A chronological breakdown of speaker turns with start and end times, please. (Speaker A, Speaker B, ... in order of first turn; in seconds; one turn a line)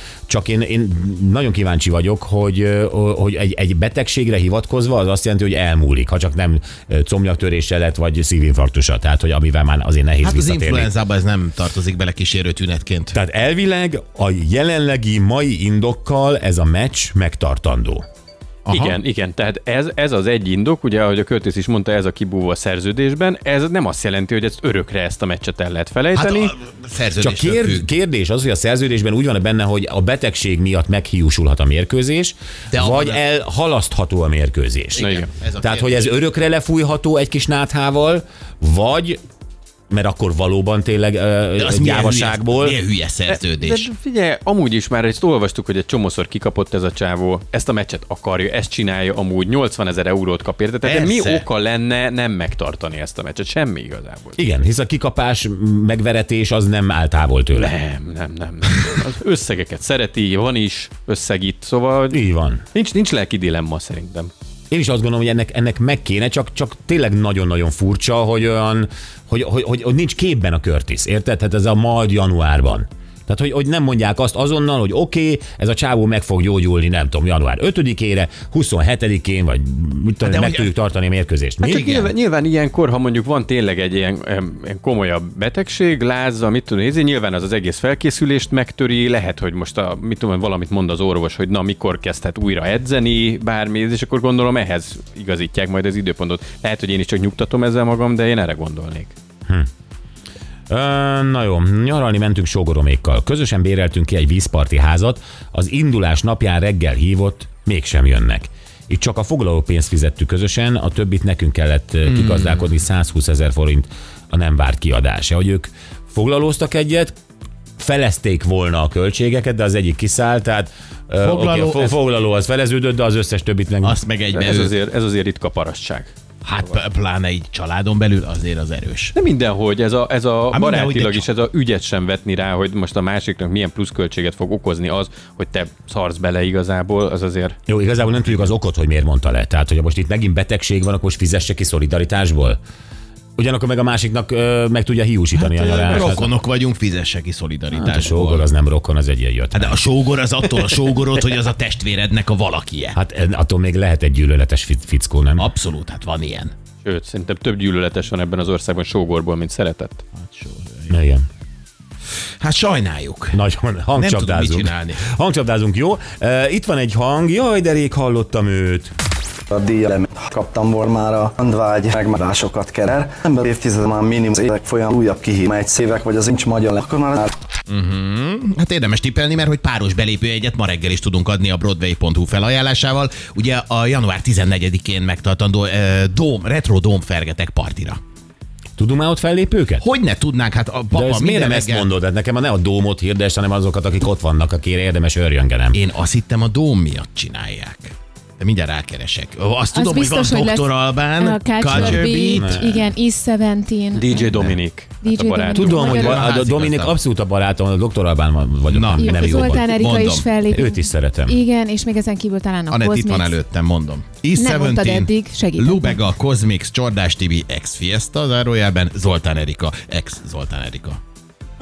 Speaker A: 0.3-10.9
Speaker B: 10.2-13.2
Speaker A: 13.1-18.0
Speaker B: 18.7-19.0
Speaker C: 18.7-26.5
Speaker B: 26.1-27.9
Speaker A: 27.2-35.1
Speaker B: 32.7-33.2
Speaker B: 35.0-36.0
Speaker C: 35.0-35.3
Speaker A: 35.6-39.2
Speaker A: 39.9-42.8
Speaker B: 41.6-43.9
Speaker C: 43.3-54.4
Speaker B: 50.8-51.5
Speaker A: 54.4-57.8
Speaker C: 57.6-62.2
Speaker A: 62.1-62.6
Speaker C: 62.7-64.3
Speaker A: 64.7-81.8
Speaker B: 80.2-80.7
Speaker C: 81.6-99.2
Speaker B: 81.6-82.1
Speaker A: 100.7-117.2
Speaker B: 112.1-112.6
Speaker A: 117.8-124.0
Speaker B: 121.2-122.0
Speaker B: 123.8-124.7
Speaker C: 124.3-126.8
Speaker B: 126.4-129.1
Speaker C: 129.2-137.6
Speaker B: 130.5-131.3
Speaker A: 137.7-142.6
Speaker A: 143.4-146.3
Speaker B: 145.4-148.5
Speaker A: 147.7-149.8
Speaker B: 149.5-153.0
Speaker A: 152.9-155.5
Speaker B: 155.4-156.5
Speaker C: 156.8-160.0
Speaker B: 160.2-160.9
Speaker A: 160.9-161.3
Speaker B: 162.4-163.4
Speaker A: 163.3-168.9
Speaker B: 164.0-165.0
Speaker D: 169.5-177.3
Speaker B: 177.7-188.0
Speaker A: 188.8-189.8
Speaker B: 189.8-191.9
Speaker A: 190.9-195.8
Speaker B: 195.7-202.8
Speaker E: 199.7-204.4
Speaker A: 201.7-202.8
Speaker C: 203.9-205.8
Speaker E: 205.0-206.2
Speaker A: 205.6-209.7
Speaker B: 205.7-206.9
Speaker B: 208.7-210.3
Speaker E: 209.0-213.4
Speaker A: 210.5-211.4
Speaker B: 212.7-221.0
Speaker E: 214.3-216.0